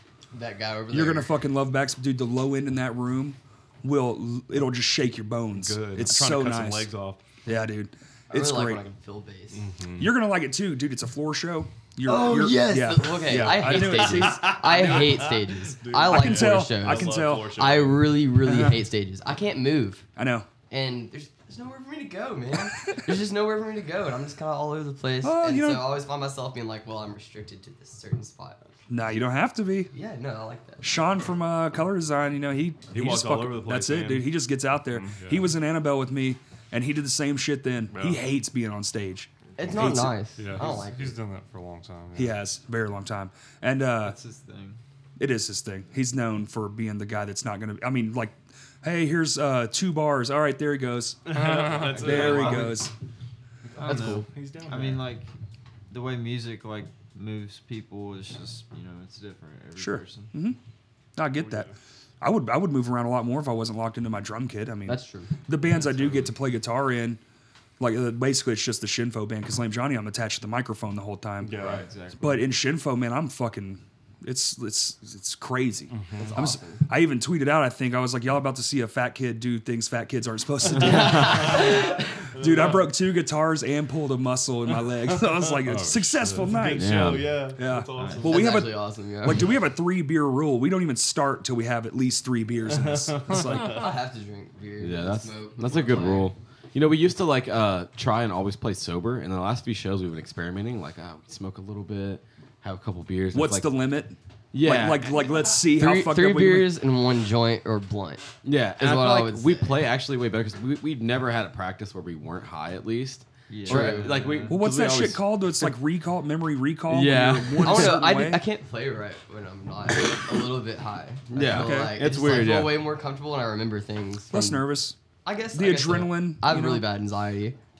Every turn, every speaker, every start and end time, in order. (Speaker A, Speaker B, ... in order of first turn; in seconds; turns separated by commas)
Speaker A: 0.3-1.3, Speaker B: 0.9-6.9, Speaker C: 5.5-7.2, Speaker B: 7.5-8.8, Speaker A: 8.3-9.7, Speaker C: 9.5-10.1, Speaker B: 10.0-15.0, Speaker A: 12.1-20.1, Speaker C: 13.3-18.2, Speaker B: 16.1-17.6, Speaker B: 18.5-18.7, Speaker B: 20.2-20.5, Speaker A: 20.7-28.6, Speaker B: 22.9-23.2, Speaker B: 25.2-25.9, Speaker B: 28.9-29.9, Speaker A: 29.9-31.2, Speaker B: 30.8-40.2, Speaker C: 32.9-34.3, Speaker C: 34.9-35.2, Speaker D: 35.2-35.5, Speaker C: 37.9-38.3, Speaker A: 39.6-41.2, Speaker D: 40.4-42.4, Speaker B: 42.1-44.2, Speaker E: 44.0-44.8, Speaker B: 45.2-51.4, Speaker C: 51.2-52.8, Speaker D: 51.4-51.9, Speaker E: 51.8-52.9, Speaker B: 51.9-52.9, Speaker E: 53.7-55.3, Speaker C: 53.8-55.1, Speaker A: 53.8-54.3, Speaker E: 55.9-60.4, Speaker B: 59.8-60.6, Speaker B: 61.2-61.7, Speaker C: 61.4-61.7, Speaker B: 62.2-67.2, Speaker A: 64.9-65.4, Speaker C: 65.8-66.3, Speaker B: 67.8-93.9, Speaker C: 71.4-71.9, Speaker E: 71.6-72.5, Speaker C: 76.0-76.3, Speaker A: 76.2-76.9, Speaker A: 80.8-82.1, Speaker C: 81.2-81.7, Speaker C: 82.3-82.9, Speaker D: 85.6-86.8, Speaker C: 86.4-88.6, Speaker F: 86.8-87.5, Speaker E: 87.9-88.3, Speaker A: 88.2-89.6, Speaker C: 92.7-93.8, Speaker A: 93.6-96.3, Speaker F: 94.8-103.8, Speaker B: 103.3-106.7, Speaker F: 104.5-105.1, Speaker A: 105.7-109.8, Speaker F: 108.4-115.2, Speaker E: 113.5-114.6, Speaker A: 113.7-114.5, Speaker B: 114.5-118.4, Speaker F: 116.9-118.0, Speaker A: 117.6-124.7, Speaker F: 121.3-122.9, Speaker B: 121.5-122.0, Speaker B: 124.3-125.0, Speaker A: 125.2-127.6, Speaker B: 125.5-126.9